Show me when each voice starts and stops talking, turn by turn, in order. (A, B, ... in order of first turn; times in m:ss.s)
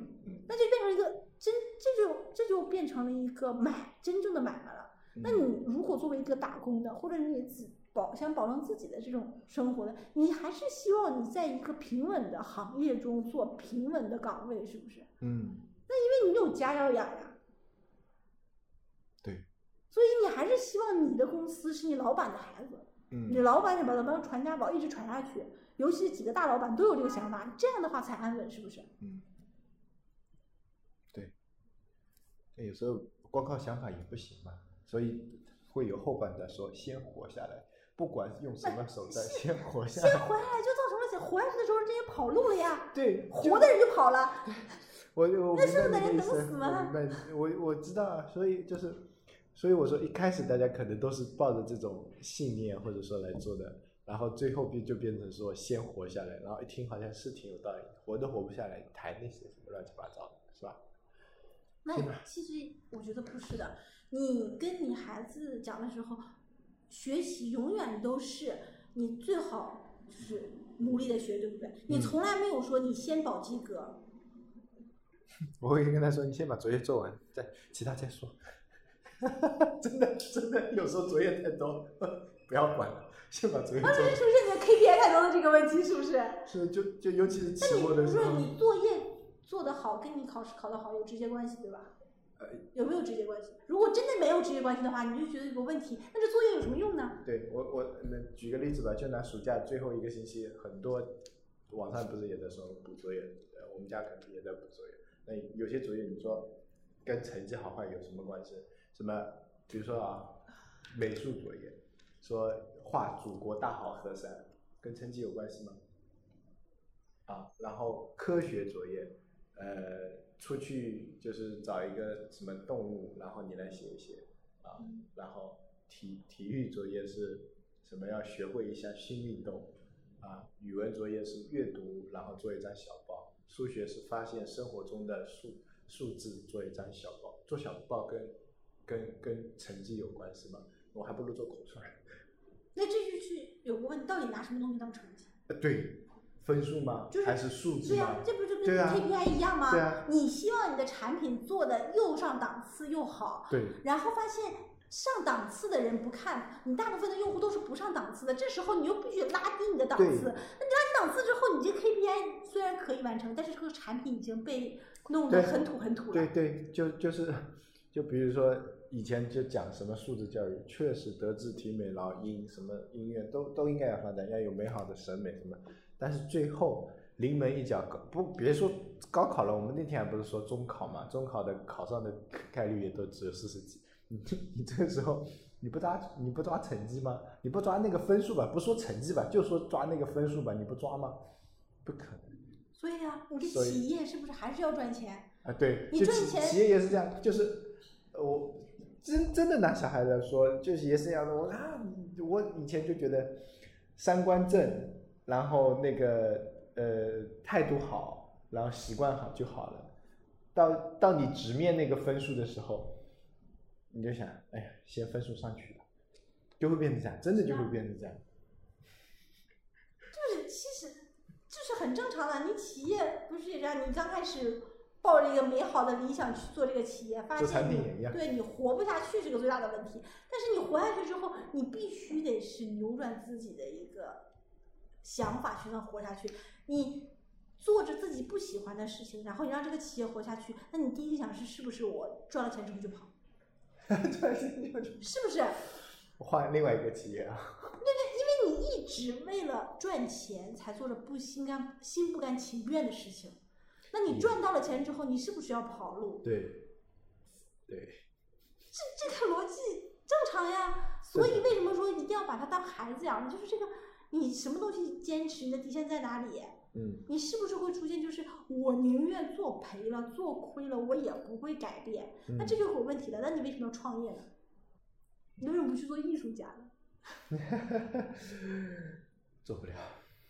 0:00.5-0:15.1 A
0:05.2-0:05.5 B
0:15.2-0:15.7 B
0:15.9-0:17.4 A
0:19.9-0:28.9 A
0:23.1-0:23.4 B
0:29.0-0:29.3 B
0:32.6-0:40.3 B
0:38.6-0:44.6 A
0:42.9-0:43.8 B
0:45.1-0:49.0 B
0:45.5-0:47.3 A
0:49.5-1:00.8 B
1:01.8-1:06.2 A
1:01.9-1:02.2 B
1:06.9-1:14.0 A
1:11.9-1:12.2 B
1:15.6-1:18.4 B
1:19.2-1:24.2 B
1:23.8-1:26.4 A
1:26.5-1:28.5 B
1:27.6-1:31.9 A
1:32.7-1:37.2 A
1:37.2-1:41.2 B
1:41.7-1:55.8 B
1:57.3-2:18.4 B
2:18.9-2:22.0 B
2:22.8-2:25.3 A
2:25.5-2:30.1 B
2:27.1-2:46.3 A
2:33.5-2:33.8 B
2:40.0-2:40.3 B
2:45.3-3:11.2 B
3:11.8-3:12.4 B
3:12.8-3:15.3 A
3:13.4-3:13.8 B
3:15.4-3:23.4 B
3:15.9-3:16.6 A
3:24.0-3:29.9 B
3:30.6-3:33.0 B
3:33.9-3:35.8 B
3:36.6-3:38.2 B
3:37.4-3:37.7 A
3:40.1-3:54.2 A
3:47.4-3:48.2 B
3:55.0-4:03.1 A
4:03.9-4:05.1 B
4:05.0-4:05.6 A
4:06.2-4:07.8 B
4:07.8-4:13.4 A
4:13.9-4:16.3 A
4:14.1-4:14.4 B
4:16.2-4:16.7 B
4:17.7-4:18.0 B
4:18.7-4:34.3 A
4:21.2-4:21.5 B
4:26.7-4:27.1 B
4:32.3-4:32.6 B
4:35.4-4:36.7 A
4:37.3-4:40.0 B